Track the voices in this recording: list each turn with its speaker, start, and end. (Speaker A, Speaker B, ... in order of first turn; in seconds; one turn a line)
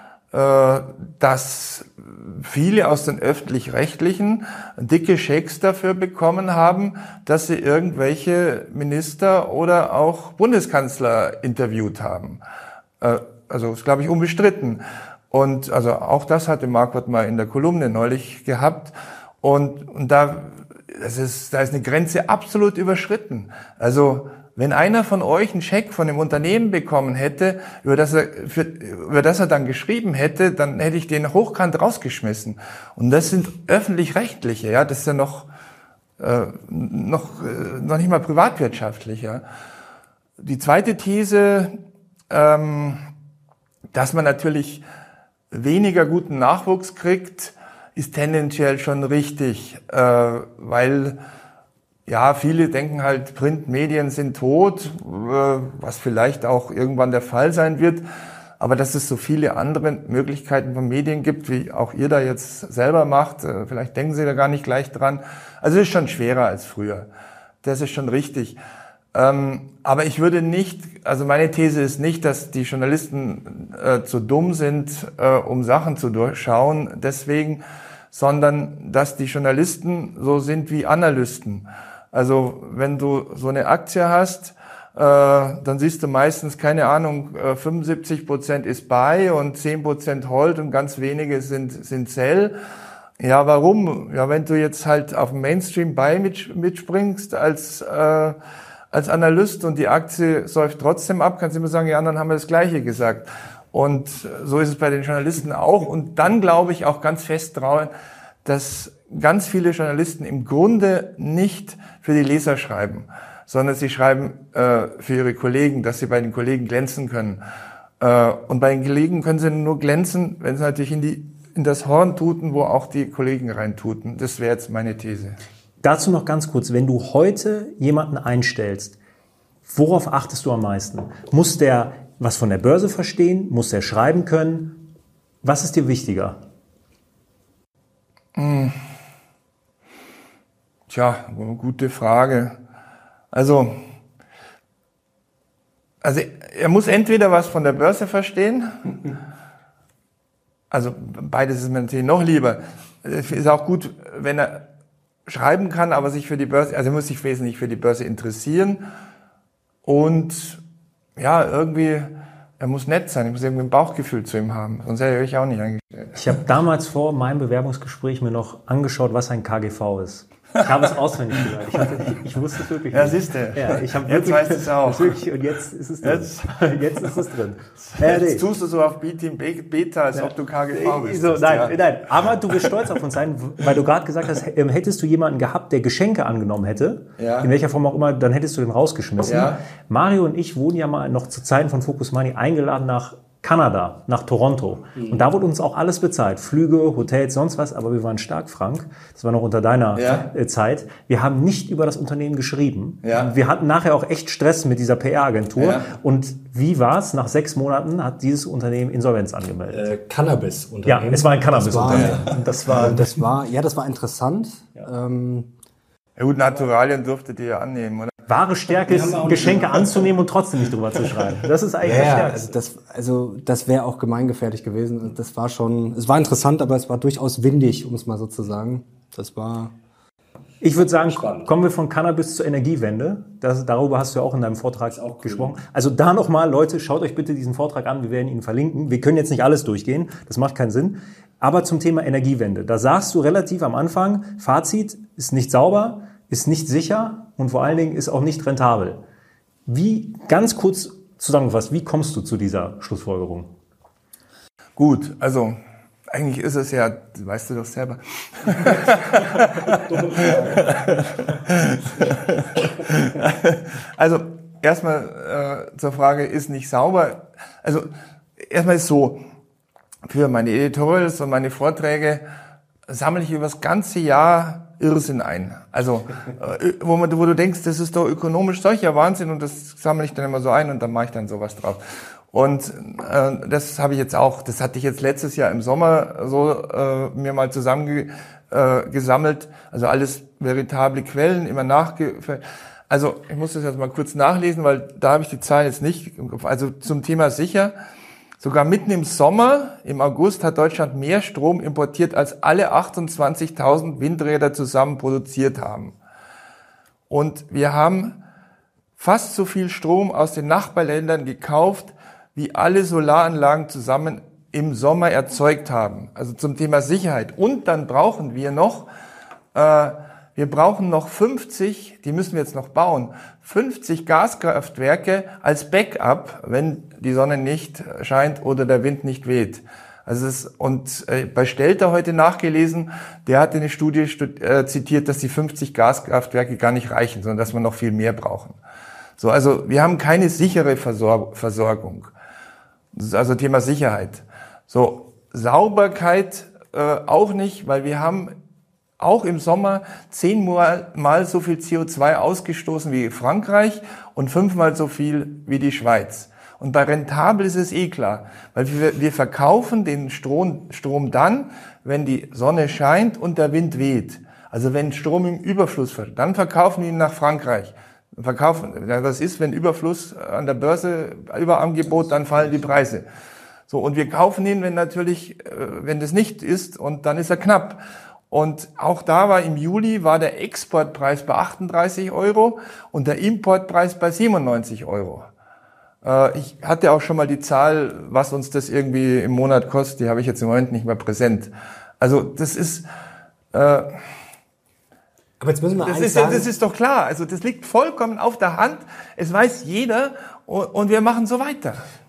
Speaker A: 0.3-12.4
Speaker A: 13.0-35.5
Speaker A: 36.2-39.4
Speaker A: 40.4-41.7
Speaker A: 42.3-43.0
Speaker A: 43.9-44.8
Speaker A: 45.5-51.2
Speaker A: 52.1-58.0
Speaker A: 58.6-67.1
Speaker A: 67.6-68.6
Speaker A: 69.1-92.5
Speaker A: 93.2-98.3
Speaker A: 98.9-107.9
Speaker A: 108.4-117.4
Speaker A: 118.0-125.4
Speaker B: 125.8-128.9
Speaker B: 129.7-134.8
Speaker B: 135.4-136.4
Speaker A: 138.3-138.8
Speaker A: 140.9-142.6
Speaker A: 143.3-143.8
Speaker A: 146.0-148.9
Speaker A: 150.7-154.6
Speaker A: 155.3-158.8
Speaker A: 159.8-160.6
Speaker A: 161.2-166.1
Speaker B: 166.1-178.4
Speaker A: 172.9-175.2
Speaker A: 176.0-177.2
Speaker A: 177.9-181.8
Speaker B: 180.1-209.8
Speaker A: 187.2-187.5
Speaker A: 189.2-189.6
Speaker A: 199.9-200.3
Speaker A: 203.0-203.3
Speaker A: 205.6-205.9
Speaker C: 209.7-215.5
Speaker B: 210.8-213.1
Speaker A: 211.9-212.8
Speaker A: 216.2-218.2
Speaker B: 218.3-222.5
Speaker C: 218.8-219.7
Speaker C: 221.8-229.7
Speaker B: 230.6-249.0
Speaker C: 230.8-231.5
Speaker C: 235.0-235.5
Speaker B: 249.7-253.5
Speaker A: 254.8-255.6
Speaker A: 256.1-267.9
Speaker B: 260.1-260.6
Speaker A: 268.4-269.2
Speaker A: 270.1-272.2
Speaker A: 272.9-281.8
Speaker A: 282.3-297.7
Speaker A: 298.4-305.9
Speaker A: 307.1-308.2
Speaker A: 309.0-318.9
Speaker A: 319.5-338.6
Speaker A: 339.2-342.1
Speaker A: 342.9-348.3
Speaker A: 349.0-373.0
Speaker A: 373.7-385.3
Speaker A: 386.0-392.9
Speaker A: 393.5-393.9
Speaker C: 395.4-396.5
Speaker A: 395.8-401.8